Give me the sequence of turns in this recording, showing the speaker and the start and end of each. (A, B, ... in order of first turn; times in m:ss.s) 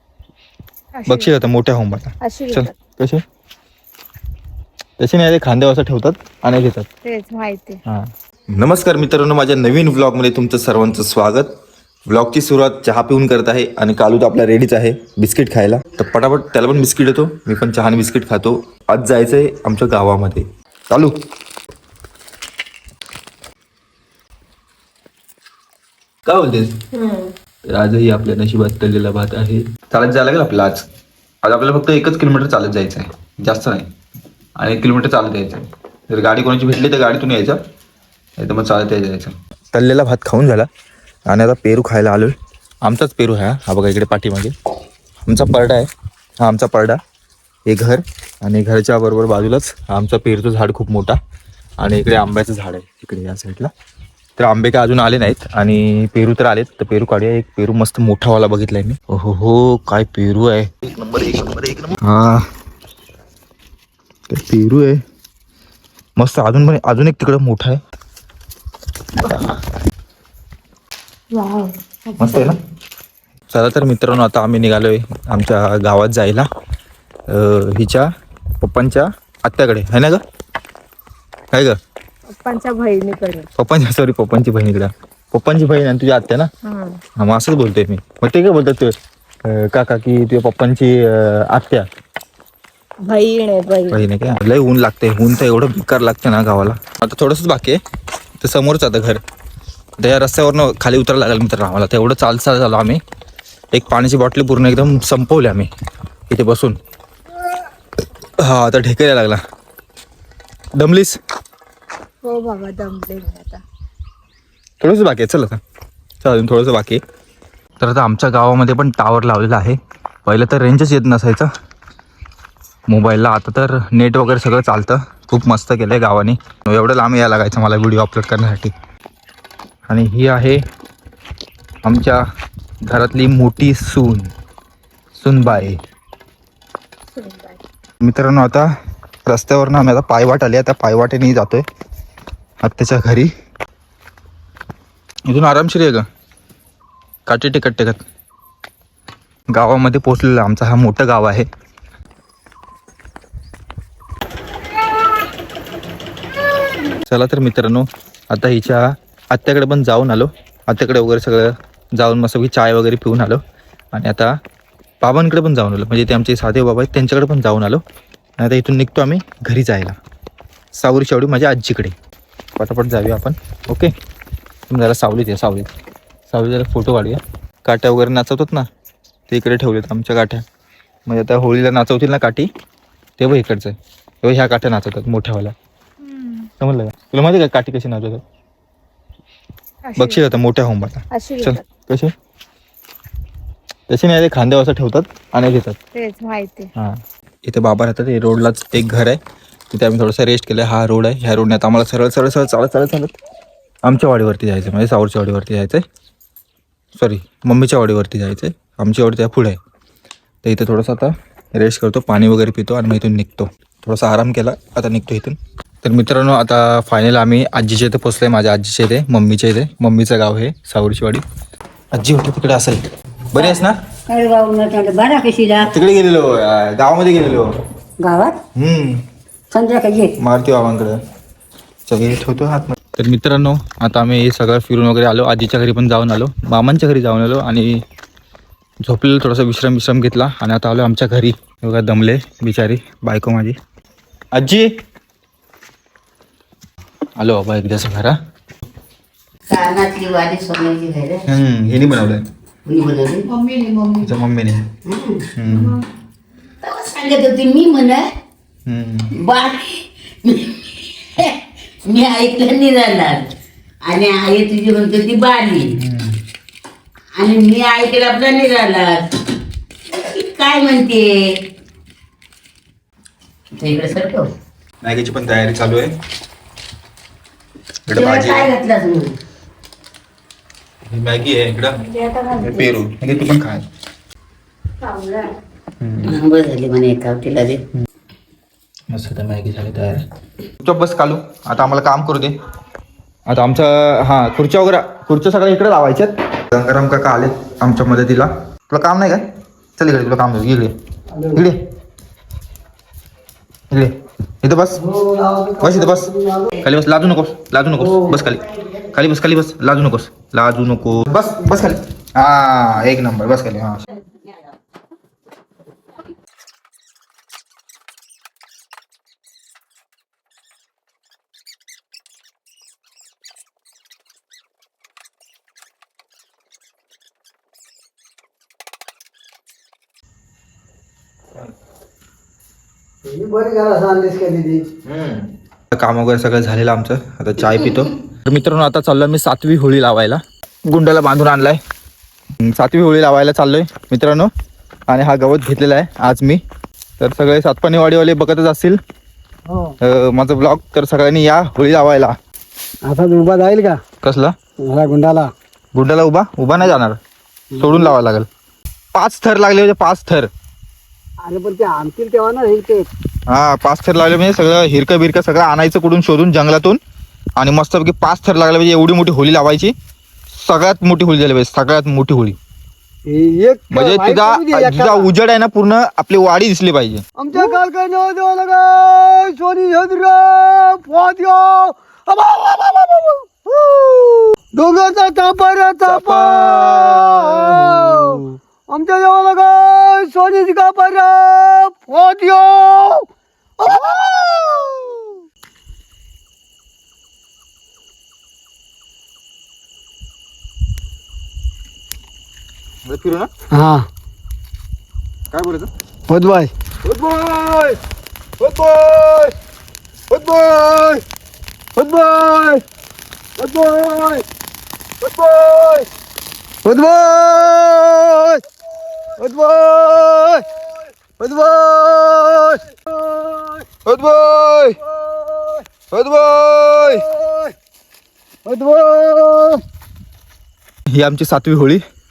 0:01.0-0:01.2 A
0:01.1-0:03.2 B
0:02.2-0:02.7 A
0:05.0-0:06.9 B
0:07.0-0:07.8 A
0:07.9-0:11.5 B
0:12.1-0:21.2 B
0:26.2-0:26.8 B
0:27.7-0:30.9 B
0:31.4-0:33.9 B
0:34.6-0:37.6 B
0:38.4-0:40.7 B
0:41.3-0:44.5 B
0:45.2-0:47.0 B
0:47.7-0:51.2 B
0:51.8-0:53.7 B
0:54.4-1:02.4 B
1:04.3-1:05.0 B
1:06.2-1:07.8 B
1:09.2-1:09.6 B
1:11.3-1:11.7 A
1:12.2-1:12.6 B
1:13.5-1:16.5 B
1:17.3-1:18.1 B
1:18.6-1:20.2 B
1:21.5-1:21.8 B
1:22.3-1:23.5 A
1:23.6-1:26.5 B
1:26.6-1:27.0 A
1:27.2-1:28.9 B
1:29.4-1:31.9 B
1:33.0-1:34.0 A
1:33.9-1:37.8 B
1:38.4-1:39.2 B
1:40.0-1:43.0 B
1:43.7-1:45.7 B
1:46.3-1:46.8 B
1:48.4-1:49.4 B
1:50.8-1:51.2 B
1:52.2-1:53.6 A
1:54.8-1:55.6 B
1:56.2-1:57.0 B
1:57.8-2:01.5 B
2:02.9-2:08.7 B
2:09.9-2:10.6 B
2:11.8-2:12.2 B
2:12.8-2:14.3 B
2:15.1-2:15.8 B
2:17.2-2:17.5 A
2:18.0-2:18.7 B
2:19.2-2:21.6 B
2:22.6-2:23.3 B
2:25.3-2:26.0 B
2:27.3-2:28.0 B
2:29.5-2:31.4 B
2:37.1-2:43.4 B
2:43.9-2:44.3 B
2:45.0-2:47.8 B
2:48.4-2:50.0 B
2:50.7-2:51.9 B
2:52.6-2:53.9 B
2:54.7-2:55.7 B
2:56.3-2:58.7 B
2:59.3-3:00.4 B
3:01.1-3:02.5 B
3:03.2-3:05.5 B
3:06.0-3:06.5 A
3:06.6-3:08.2 B
3:09.8-3:10.2 A
3:10.0-3:12.1 B
3:11.1-3:11.6 A
3:13.9-3:15.8 B
3:15.9-3:16.7 A
3:16.8-3:19.2 B
3:19.7-3:23.1 B
3:23.8-3:25.8 B
3:27.0-3:29.6 B
3:30.4-3:41.2 B
3:41.9-3:43.8 B
3:44.4-3:45.4 C
3:45.6-3:47.5 B
3:48.0-3:48.3 C
3:48.6-3:49.0 B
3:49.6-3:50.0 C
3:50.2-3:51.0 B
3:51.9-3:57.8 B
3:58.8-4:03.6 B
4:04.3-4:04.7 B
4:07.2-4:08.2 B
4:09.5-4:11.2 D
4:11.3-4:12.2 B
4:12.6-4:14.1 D
4:14.0-4:14.7 B
4:14.8-4:15.2 D
4:15.3-4:15.8 B
4:16.6-4:18.0 D
4:18.7-4:19.1 B
4:19.1-4:23.3 D
4:23.8-4:25.7 D
4:25.8-4:26.2 B
4:27.2-4:29.2 D
4:29.9-4:31.2 D
4:33.5-4:34.3 D
4:34.8-4:35.9 B
4:37.9-4:38.5 B
4:37.9-4:39.2 D
4:40.9-4:43.6 B
4:41.9-4:42.3 D
4:45.8-4:46.2 B
4:46.0-4:47.6 D
4:48.9-4:50.0 B
4:50.6-4:52.4 B
4:53.3-4:59.2 B
4:59.8-5:00.7 B
5:01.1-5:01.4 C
5:01.3-5:01.6 B
5:03.7-5:04.8 B
5:04.8-5:06.6 C
5:05.6-5:13.8 B
5:07.8-5:08.2 C
5:11.2-5:11.6 C
5:33.0-5:34.7 C
5:34.8-5:41.6 B
5:42.4-5:44.3 B
5:44.9-5:46.4 B
5:47.0-5:48.8 B
5:49.5-5:49.8 C
5:49.8-5:52.1 B
5:52.8-5:53.8 C
5:54.0-5:54.3 B
5:54.6-5:55.3 C
5:55.7-5:57.0 B
5:57.5-5:57.9 C
5:57.6-5:58.3 B
5:58.9-6:00.3 B
6:01.2-6:02.9 C
6:03.3-6:06.8 B
6:07.4-6:09.7 B
6:10.3-6:12.4 B
6:13.0-6:15.1 C
6:13.7-6:17.0 B
6:17.2-6:33.1 C
6:25.9-6:28.2 B
6:33.6-6:35.2 C
6:42.8-6:43.3 B
6:43.5-6:43.9 C
6:45.3-6:45.7 B
6:46.1-6:46.5 C
6:46.8-6:47.8 B
6:48.4-6:49.3 B
6:50.1-6:51.0 B
6:51.8-6:52.6 B
6:53.4-6:54.2 B
6:55.0-6:55.9 B
6:56.6-6:58.4 C
6:59.2-7:00.5 C
7:01.2-7:03.6 C
7:03.8-7:04.8 B
7:05.0-7:05.6 C
7:05.9-7:07.1 B
7:07.1-7:07.5 C
7:08.4-7:09.6 C
7:10.9-7:11.8 B